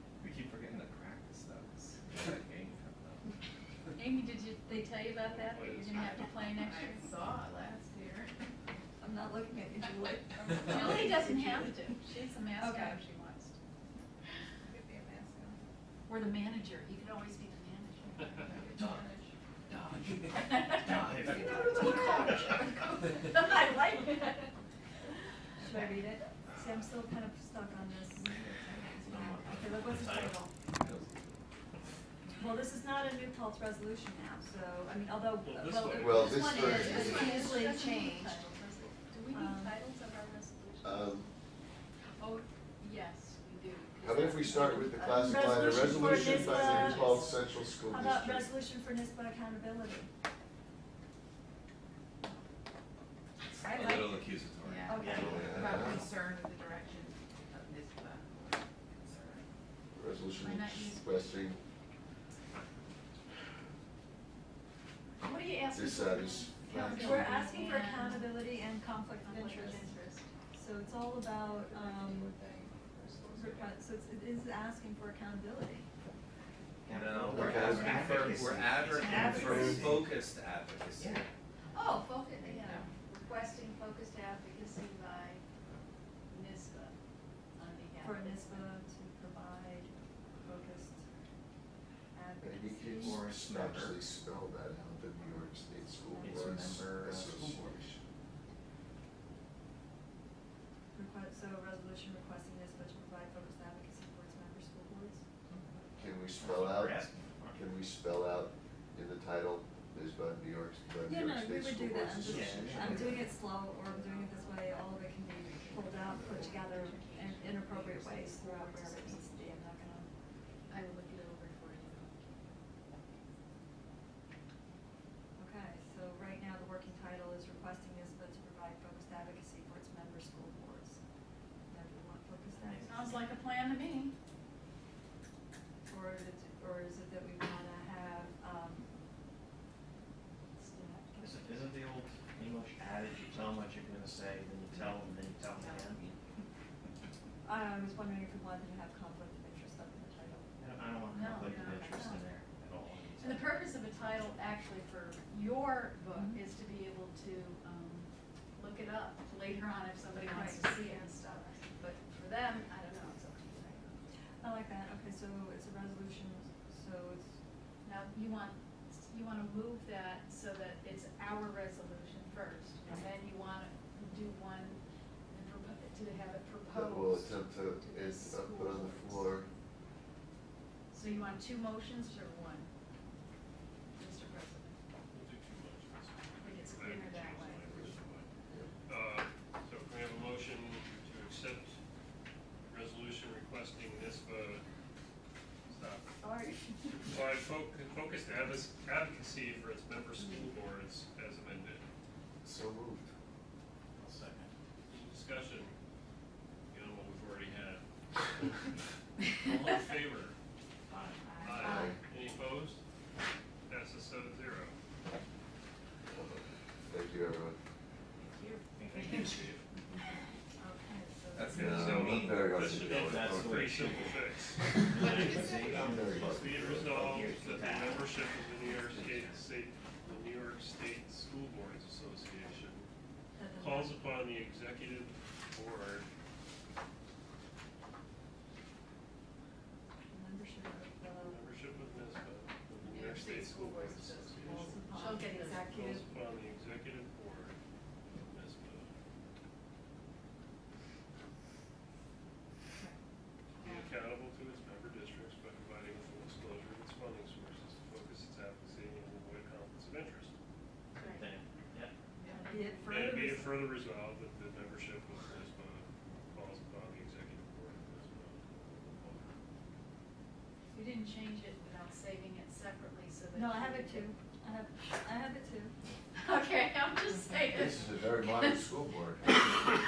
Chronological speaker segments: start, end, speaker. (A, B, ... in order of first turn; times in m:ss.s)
0:00.2-0:03.2 A
0:04.0-0:07.1 B
0:05.2-0:06.5 C
0:06.5-0:08.5 D
0:09.0-0:12.0 E
0:10.6-0:13.6 B
0:12.6-0:13.0 E
0:14.7-0:15.6 D
0:16.1-0:19.0 B
0:18.4-0:20.5 D
0:18.7-0:19.0 F
0:20.7-0:22.6 F
0:23.2-0:24.2 B
0:23.2-0:24.4 E
0:25.6-0:31.0 E
0:29.0-0:30.4 F
0:30.8-0:31.1 G
0:32.3-0:38.4 E
0:35.4-0:37.0 C
0:35.7-0:41.3 B
0:36.0-0:37.5 G
0:39.3-0:39.8 E
0:40.8-0:41.3 G
0:42.2-0:47.1 B
0:44.0-0:48.5 G
0:45.1-0:47.2 E
0:46.4-0:47.2 D
0:47.9-0:50.1 E
0:53.6-0:54.4 E
0:53.6-0:55.9 A
0:54.6-0:59.5 D
0:54.9-0:55.4 E
0:54.9-0:55.4 F
0:55.1-0:56.1 G
0:59.9-1:01.6 G
1:00.4-1:01.2 B
1:05.2-1:08.5 B
1:05.7-1:07.3 G
1:06.8-1:09.9 E
1:09.2-1:10.3 B
1:10.5-1:12.4 E
1:11.7-1:13.7 D
1:13.3-1:15.9 E
1:16.8-1:20.1 F
1:16.9-1:21.2 A
1:17.3-1:18.0 G
1:19.2-1:19.6 D
1:21.7-1:25.4 B
1:22.5-1:22.9 D
1:26.3-1:27.0 B
1:27.6-1:28.7 B
1:28.0-1:31.0 E
1:32.1-1:33.2 E
1:32.4-1:38.0 G
1:33.0-1:34.0 F
1:36.0-1:36.5 E
1:36.2-1:37.7 F
1:40.9-1:45.2 E
1:45.5-1:47.6 F
1:46.0-1:53.2 G
1:51.0-2:00.1 E
1:52.2-1:53.3 F
1:56.0-1:56.3 D
1:56.2-1:59.7 B
2:00.7-2:02.4 B
2:05.4-2:11.0 E
2:11.7-2:13.2 E
2:12.6-2:12.8 F
2:12.8-2:14.1 B
2:15.9-2:18.9 E
2:20.6-2:21.5 E
2:21.2-2:26.2 F
2:27.4-2:30.5 E
2:30.6-2:33.6 F
2:31.1-2:32.2 B
2:33.2-2:44.0 B
2:36.1-2:36.4 E
2:40.2-2:41.6 E
2:44.4-2:47.3 E
2:47.8-2:59.4 B
2:56.7-2:59.5 G
3:00.9-3:02.7 B
3:04.0-3:04.8 B
3:05.1-3:08.3 C
3:06.4-3:07.9 B
3:08.9-3:11.8 C
3:12.7-3:14.6 C
3:15.7-3:16.2 C
3:16.2-3:17.0 E
3:17.0-3:21.8 C
3:22.4-3:23.1 G
3:24.0-3:24.5 F
3:24.9-3:25.8 C
3:26.7-3:28.5 C
3:29.3-3:30.4 C
3:30.9-3:31.8 D
3:31.4-3:32.8 C
3:31.6-3:31.9 B
3:31.6-3:32.0 G
3:33.7-3:34.8 C
3:36.1-3:37.6 G
3:38.3-3:39.3 D
3:38.8-3:39.6 F
3:38.9-3:39.6 C
3:40.6-3:42.6 B
3:41.4-3:42.4 A
3:41.4-3:52.9 C
3:41.5-3:43.8 G
3:42.9-3:44.1 F
3:44.8-3:46.2 F
3:45.6-3:47.3 G
3:46.9-3:49.4 F
3:53.4-3:54.0 E
3:53.6-3:56.1 C
4:00.1-4:01.4 E
4:01.1-4:08.9 C
4:02.8-4:05.7 B
4:04.4-4:06.1 E
4:13.6-4:20.3 C
4:21.0-4:21.3 B
4:21.0-4:21.9 F
4:22.3-4:23.6 E
4:22.8-4:29.3 C
4:30.7-4:34.1 B
4:33.4-4:35.7 E
4:36.2-4:38.6 B
4:37.5-4:39.4 G